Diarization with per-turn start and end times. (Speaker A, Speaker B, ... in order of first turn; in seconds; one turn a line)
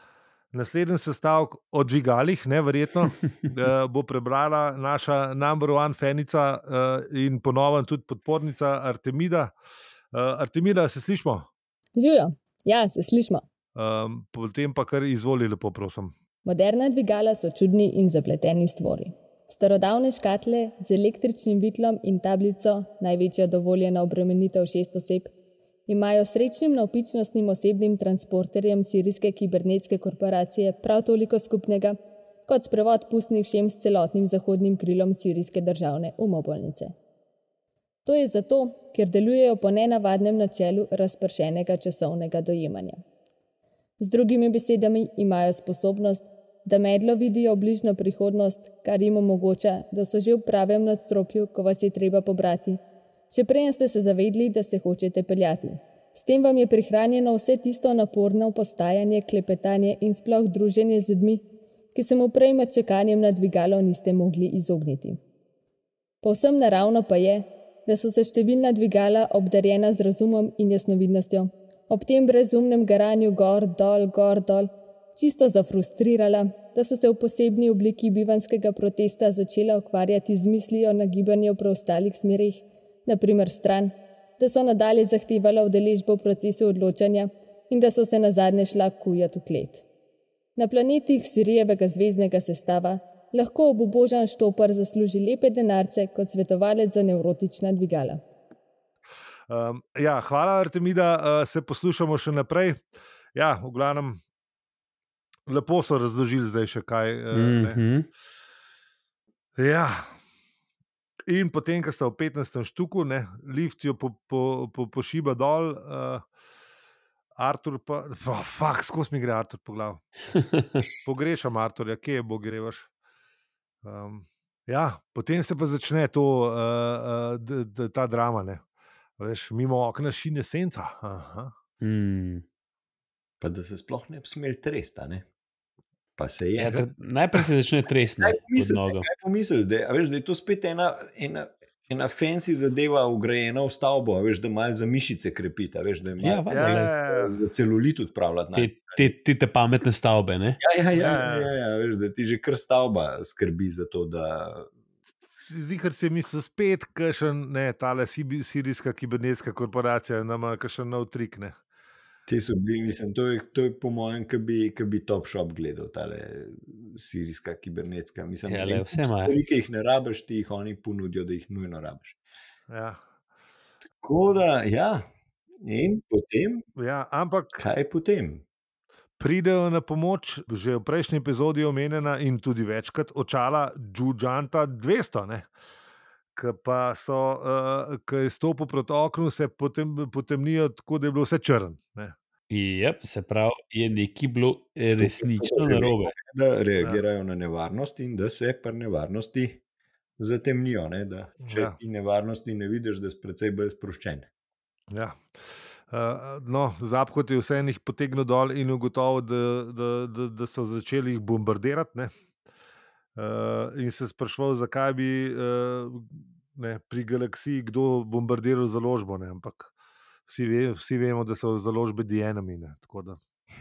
Speaker A: 0.5-9.5
Speaker A: 10.1-11.5
Speaker B: 12.0-13.4
Speaker A: 13.8-16.1
Speaker B: 16.4-25.3
Speaker B: 25.9-32.0
Speaker B: 32.5-36.9
Speaker B: 38.0-43.0
Speaker B: 44.0-52.8
Speaker B: 53.3-65.2
Speaker B: 66.2-89.8
Speaker B: 90.6-98.2
Speaker A: 99.5-102.8
Speaker A: 103.3-104.2
Speaker A: 105.5-107.8
Speaker C: 107.3-108.1
Speaker A: 109.6-110.1
Speaker A: 111.3-116.2
Speaker A: 117.4-120.0
Speaker A: 121.0-122.9
Speaker A: 123.8-128.6
Speaker A: 129.2-131.5
Speaker C: 131.8-132.4
Speaker D: 133.4-135.2
Speaker D: 136.2-136.9
Speaker C: 136.6-139.1
Speaker D: 138.2-146.5
Speaker C: 146.2-146.9
Speaker A: 146.5-147.4
Speaker D: 147.1-149.1
Speaker C: 148.5-150.6
Speaker D: 150.6-154.7
Speaker A: 150.9-151.5
Speaker A: 155.4-161.6
Speaker D: 162.3-172.2
Speaker C: 168.5-169.3
Speaker A: 172.7-173.0
Speaker D: 174.0-175.1
Speaker D: 175.6-176.7
Speaker A: 176.8-177.6
Speaker D: 177.6-178.4
Speaker A: 179.2-185.5
Speaker A: 186.3-192.2
Speaker C: 192.5-196.2
Speaker D: 195.0-199.6
Speaker D: 200.2-204.3
Speaker A: 201.4-201.8
Speaker A: 204.9-205.2
Speaker A: 205.9-212.1
Speaker A: 213.2-219.7
Speaker A: 220.3-223.2